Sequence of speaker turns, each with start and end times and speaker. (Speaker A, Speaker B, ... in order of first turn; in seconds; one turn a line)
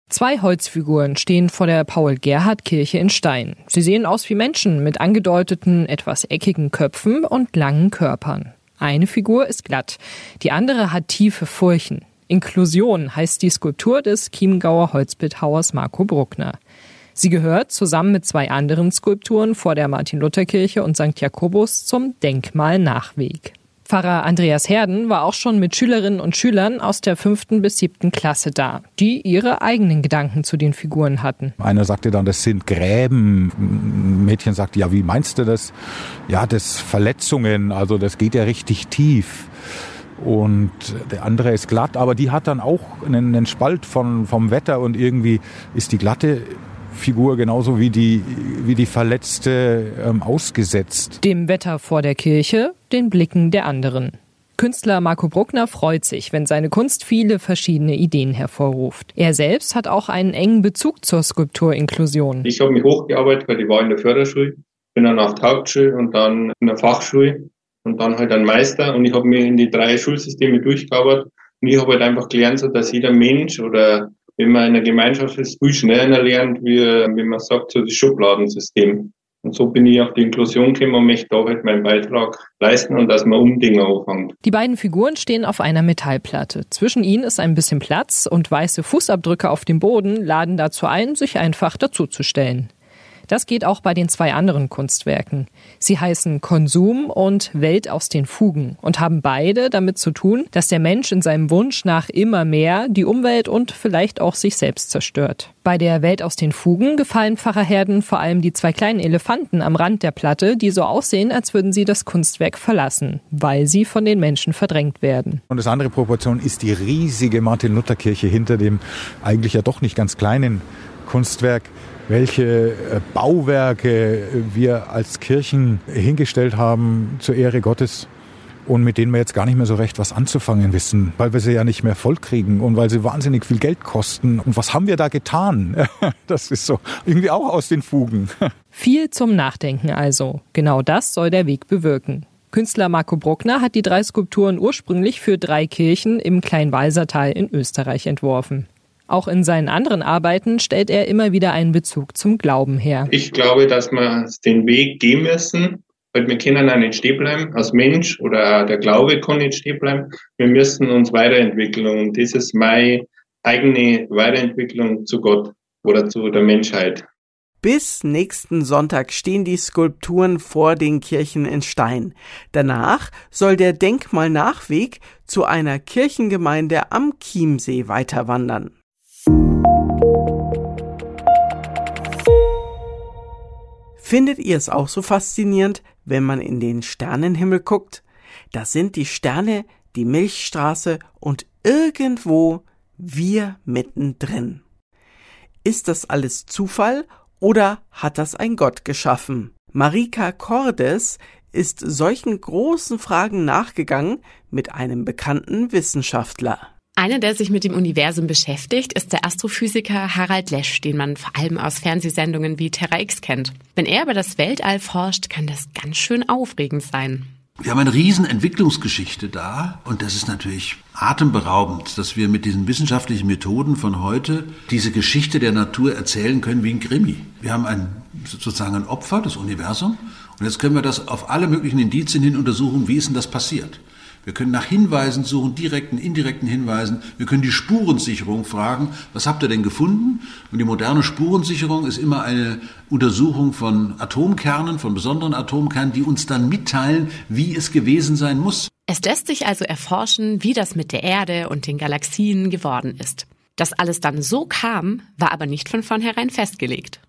Speaker A: 0.1-16.6
Speaker A: 17.1-31.5
Speaker B: 31.6-35.7
Speaker B: 36.3-39.5
Speaker B: 40.2-51.2
Speaker A: 51.2-62.5
Speaker C: 62.5-84.3
Speaker A: 84.4-92.7
Speaker A: 93.3-115.4
Speaker B: 115.5-128.1
Speaker B: 128.7-138.3
Speaker A: 138.7-153.1
Speaker C: 153.1-157.6
Speaker C: 158.1-159.0
Speaker C: 159.5-163.0
Speaker C: 163.6-167.0
Speaker D: 167.6-178.7
Speaker D: 184.0-194.6
Speaker D: 195.6-206.7
Speaker E: 207.0-217.3
Speaker F: 217.6-248.7
Speaker E: 248.9-257.0